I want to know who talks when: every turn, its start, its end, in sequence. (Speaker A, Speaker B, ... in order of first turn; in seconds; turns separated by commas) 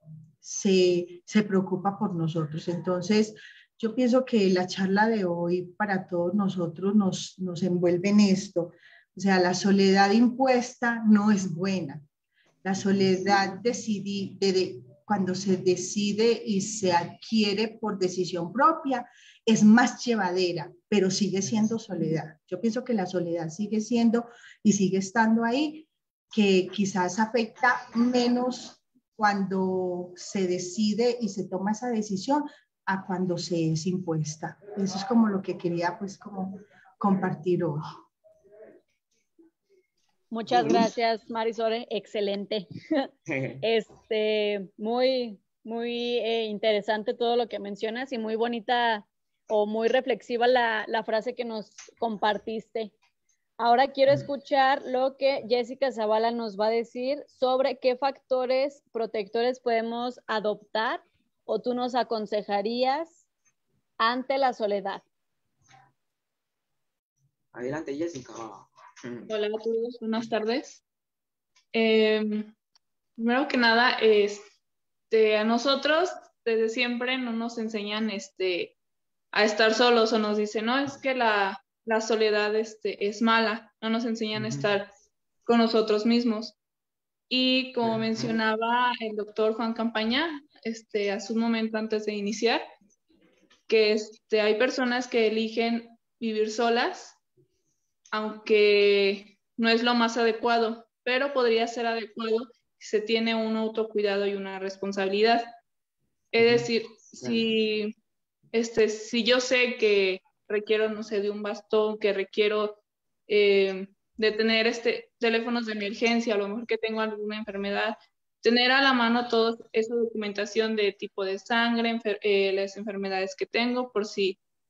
Speaker A: 0.4-12.0, Speaker A: 12.6-37.8, Speaker B: 40.3-43.1, Speaker C: 43.3-43.6, Speaker B: 43.6-52.9, Speaker B: 53.6-63.2, Speaker B: 64.0-65.0, Speaker C: 67.5-69.3, Speaker D: 69.3-70.8, Speaker D: 71.7-72.5, Speaker D: 73.2-74.5, Speaker D: 75.1-78.8, Speaker D: 79.3-84.9, Speaker C: 84.3-84.7, Speaker D: 85.4-86.5, Speaker D: 87.3-92.6, Speaker C: 87.8-88.4, Speaker D: 93.7-97.2, Speaker D: 98.1-105.5, Speaker D: 106.3-107.9, Speaker C: 106.4-106.7, Speaker C: 107.2-107.5, Speaker D: 108.5-124.4